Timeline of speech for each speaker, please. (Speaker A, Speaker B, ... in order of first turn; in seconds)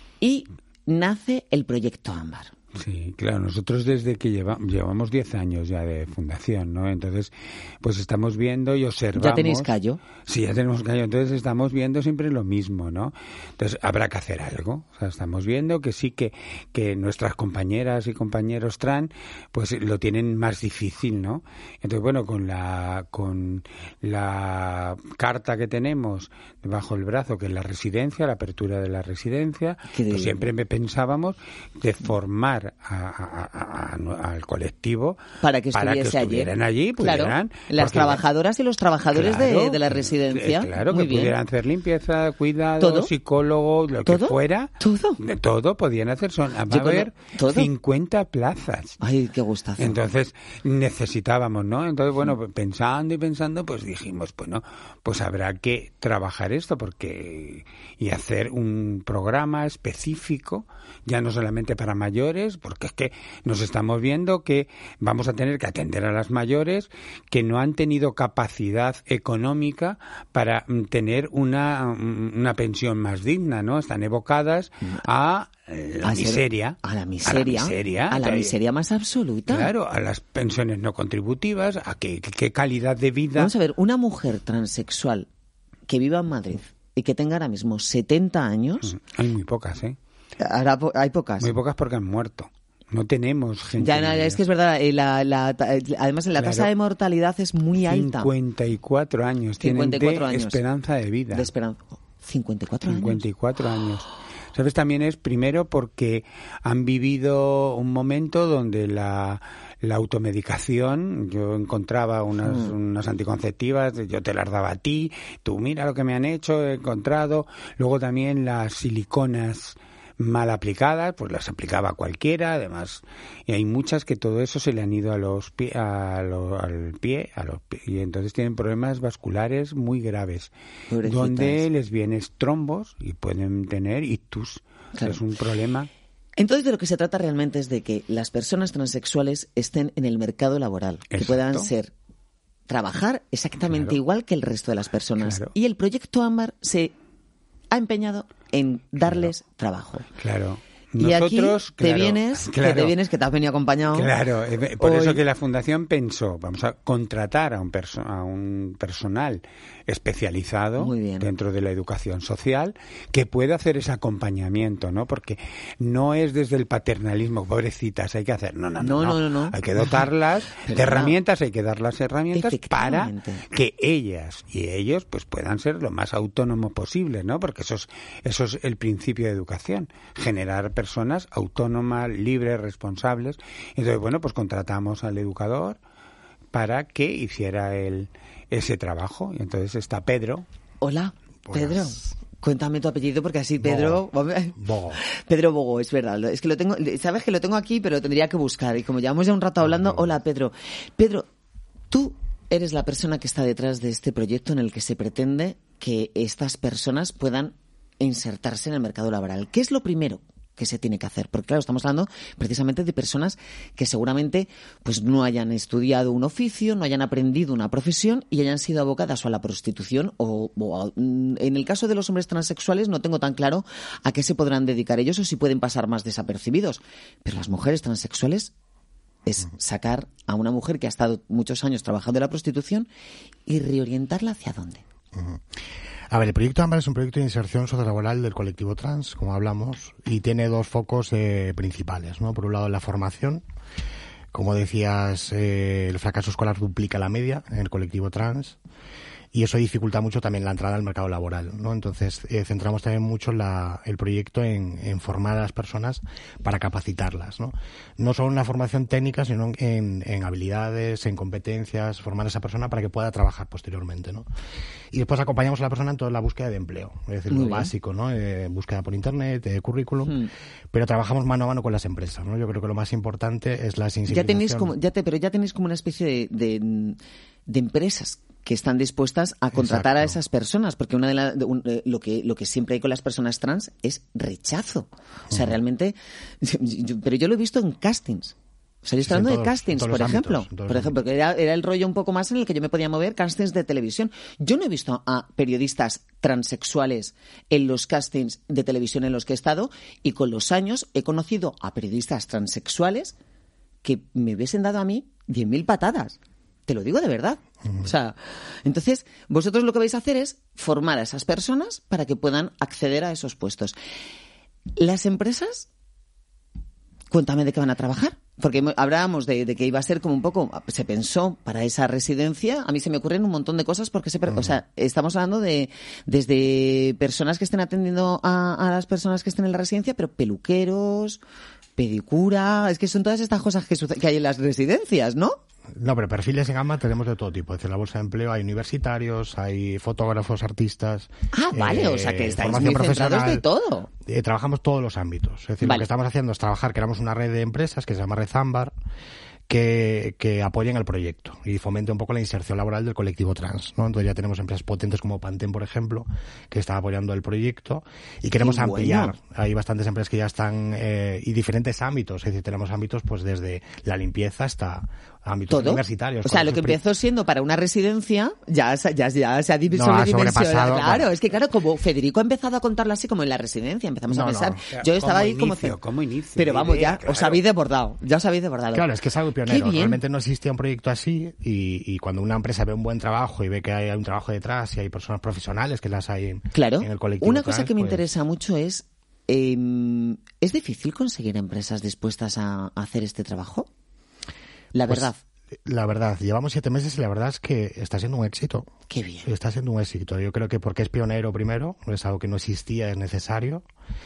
Speaker A: 0.2-2.5, 9.1-10.0, 29.9-30.4, 35.4-41.4, 42.8-43.1, 44.0-45.2, 46.7-47.7, 49.0-50.0, 76.0-79.7, 83.3-85.3, 85.9-89.0, 90.4-91.5, 93.8-98.3, 99.6-100.6, 101.3-103.2, 112.4-112.7, 130.9-131.6, 136.4-141.9, 142.7-146.9, 147.7-150.1, 151.0-154.1, 154.8-155.2, 160.8-161.3, 168.8-169.9, 170.6-171.2, 172.3-173.4, 190.8-201.3, 201.9-228.5, 229.2-232.9, 233.4-234.8, 267.3-267.7, 270.1-270.3, 274.1-303.1, 303.8-313.8, 314.8-315.7, 317.1-331.2, 331.8-335.4, 341.3-343.9, 345.6-345.9, 358.4-359.1, 365.5-375.8, 376.4-378.9, 379.4-380.0, 386.5-393.7, 394.7-395.2, 398.9-399.3
Speaker B: 2.8-9.7, 10.2-35.2, 35.7-38.2, 39.1-49.0, 49.8-78.5, 79.5-83.5, 88.9-90.0, 91.4-94.4, 96.4-96.7, 97.8-101.5, 102.9-130.5, 131.0-135.9, 141.1-141.7, 143.6-143.9, 145.2-145.5, 150.2-152.9, 153.9-185.8, 186.5-190.4, 374.7-377.4
Speaker C: 191.5-191.9, 193.6-194.0, 194.6-195.0, 199.6-200.2, 235.1-235.4, 236.1-243.4, 244.3-248.6, 249.3-264.2, 264.9-274.7, 279.5-280.2, 289.0-291.0, 324.3-324.6, 335.8-343.4, 344.1-348.7, 349.5-366.8, 369.7-371.1, 374.1-374.6, 378.7-388.1, 394.9-395.1, 395.6-398.7, 399.2-403.6